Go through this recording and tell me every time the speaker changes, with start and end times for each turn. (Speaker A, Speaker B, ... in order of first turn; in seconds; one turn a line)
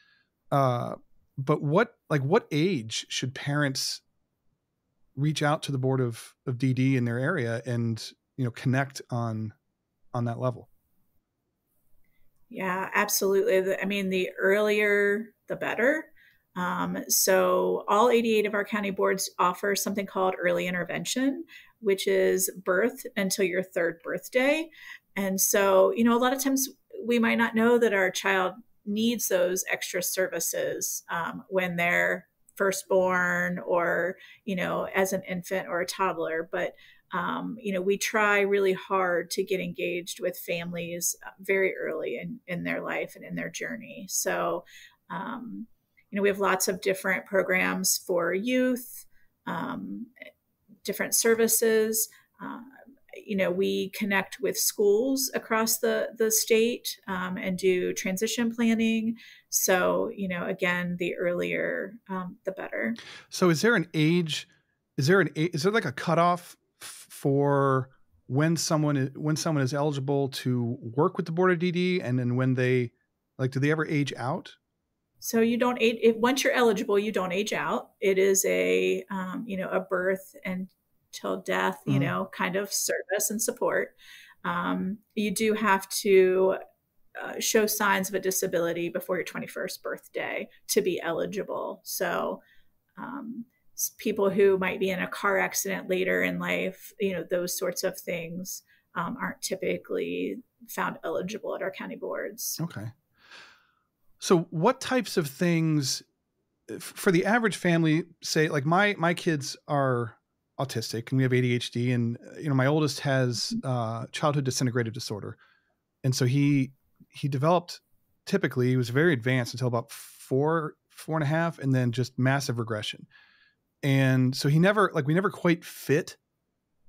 Speaker A: 0.5-4.0
Speaker A: 5.1-9.5
Speaker A: 10.1-10.7
Speaker B: 12.5-50.1
Speaker B: 50.8-63.0
Speaker A: 63.3-74.6
Speaker B: 75.2-86.6
Speaker A: 81.9-82.1
Speaker B: 87.2-92.4
Speaker B: 93.0-102.6
Speaker A: 102.6-102.9
Speaker A: 104.2-106.0
Speaker A: 106.7-115.4
Speaker A: 116.0-123.1
Speaker A: 123.8-126.2